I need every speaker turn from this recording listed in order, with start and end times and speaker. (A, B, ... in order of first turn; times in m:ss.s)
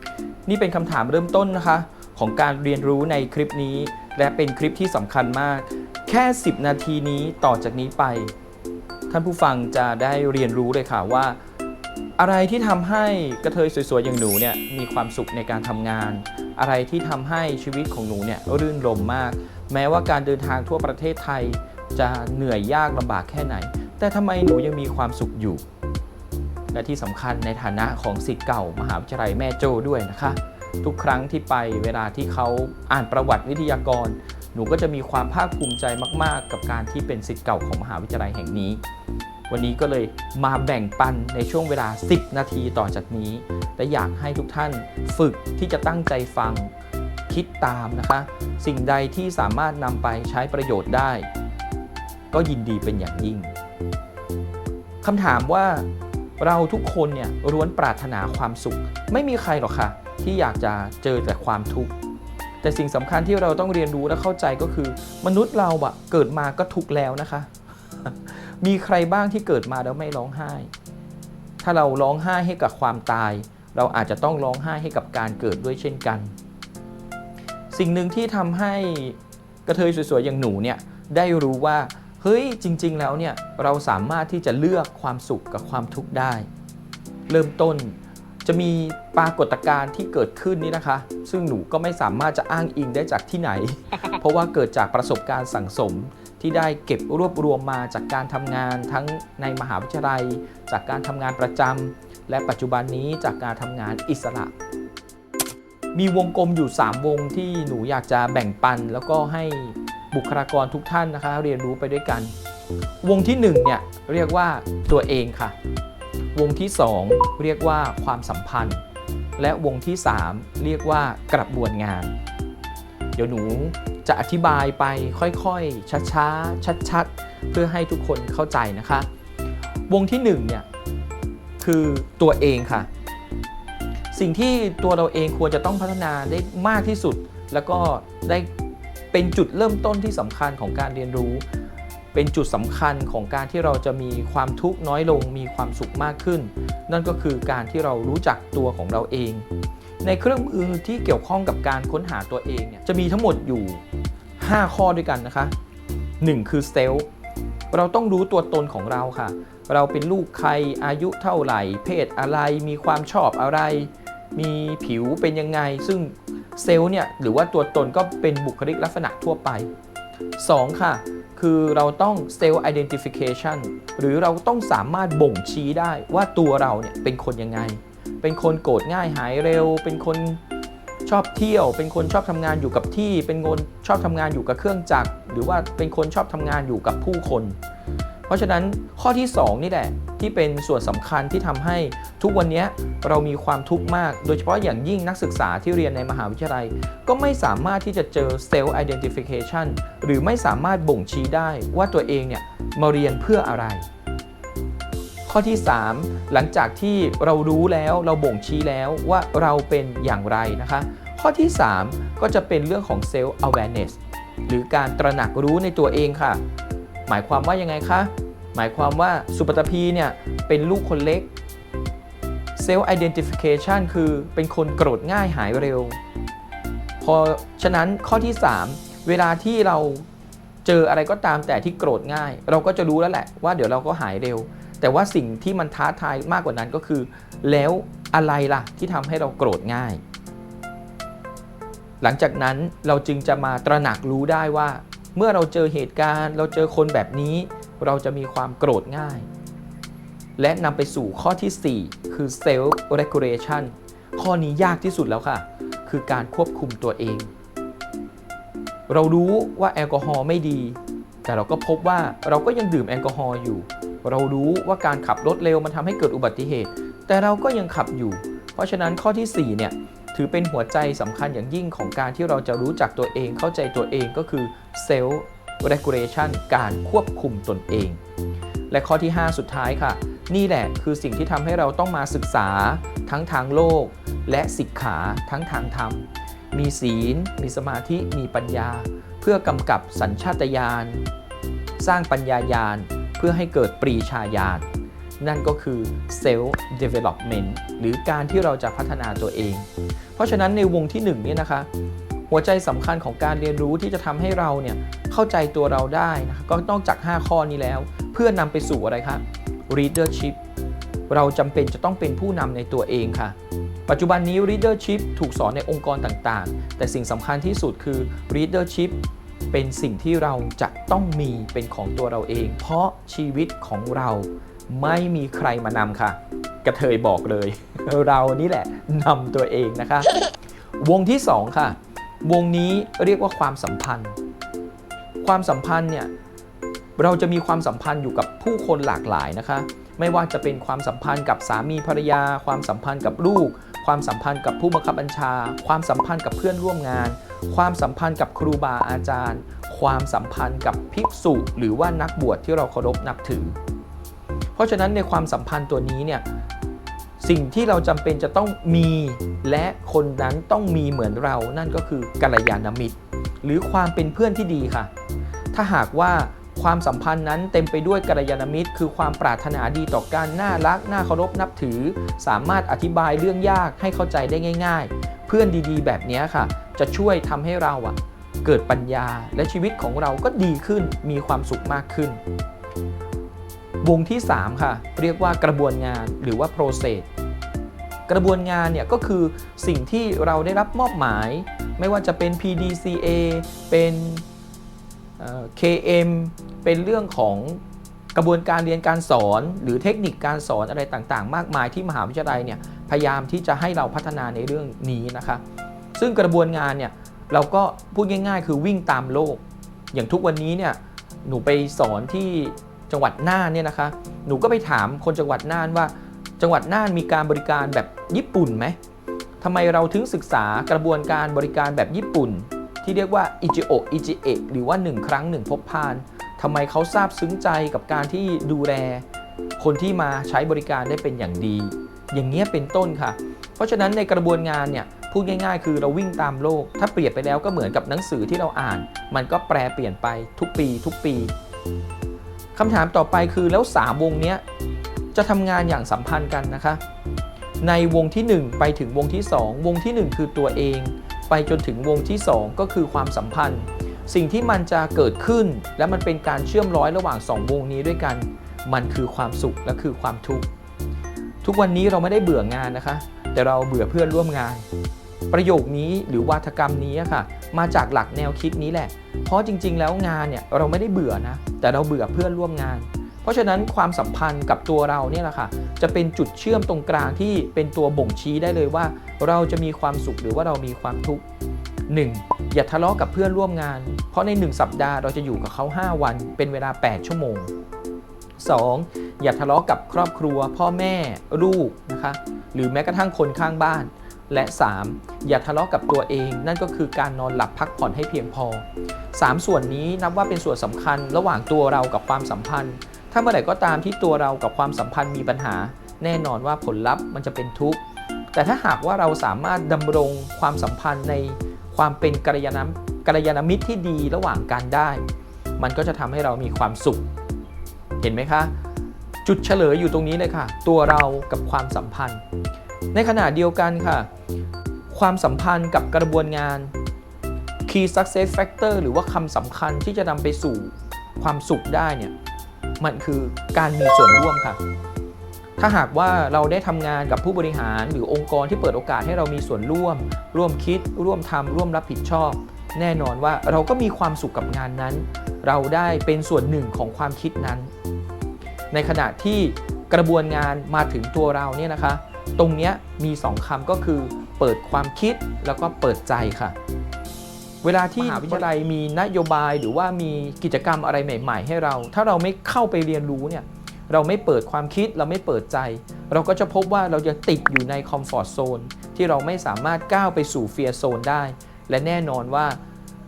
0:00.4-0:08.3 A
0:09.1-0:11.4 A
0:12.2-0:25.6 A
0:26.7-0:38.8 A
0:39.5-0:46.7 A
0:47.3-0:51.3 A
0:52.3-0:53.5 A
0:55.0-0:55.9 A
0:56.4-1:01.9 A
1:02.6-1:10.7 A
1:11.6-1:16.4 A
1:17.7-1:26.5 A
1:27.3-1:44.5 A
1:45.9-1:52.3 A
1:53.0-1:55.6 A
1:56.3-1:58.8 A
1:59.4-2:02.1 A
2:03.2-2:09.1 A
2:09.9-2:10.6 A
2:11.6-2:12.9 A
2:14.1-2:18.5 A
2:19.1-2:21.4 A
2:22.1-2:29.4 A
2:30.0-2:33.8 A
2:34.4-2:35.5 A
2:36.2-2:37.1 A
2:37.7-2:49.7 A
2:50.4-3:00.4 A
3:01.0-3:07.6 A
3:08.3-3:23.9 A
3:25.2-3:36.4 A
3:37.1-3:41.3 A
3:42.6-3:46.0 A
3:47.0-3:50.1 A
3:50.6-4:00.0 A
4:02.0-4:09.3 A
4:10.4-4:17.3 A
4:18.9-4:38.0 A
4:38.7-4:51.0 A
4:51.8-4:54.7 A
4:55.2-5:01.7 A
5:02.3-5:10.4 A
5:11.1-5:13.4 A
5:13.9-5:19.0 A
5:19.5-5:30.2 A
5:30.8-5:34.2 A
5:35.2-5:36.1 A
5:37.0-5:53.6 A
5:54.6-5:56.2 A
5:57.2-6:04.9 A
6:05.5-6:22.2 A
6:23.8-6:27.1 A
6:28.1-6:34.2 A
6:35.2-6:37.6 A
6:38.1-6:45.4 A
6:45.9-6:58.8 A
6:59.4-7:09.0 A
7:09.6-7:21.3 A
7:22.5-7:24.4 A
7:25.1-7:26.8 A
7:27.6-7:40.5 A
7:41.4-7:44.7 A
7:45.3-8:01.2 A
8:01.9-8:07.5 A
8:08.4-8:27.8 A
8:28.3-8:35.0 A
8:35.6-8:37.1 A
8:38.0-8:38.5 A
8:39.2-8:42.2 A
8:42.9-8:44.1 A
8:44.9-8:46.7 A
8:47.7-8:52.1 A
8:52.8-8:54.6 A
8:55.6-9:07.7 A
9:08.7-9:16.6 A
9:17.6-9:32.6 A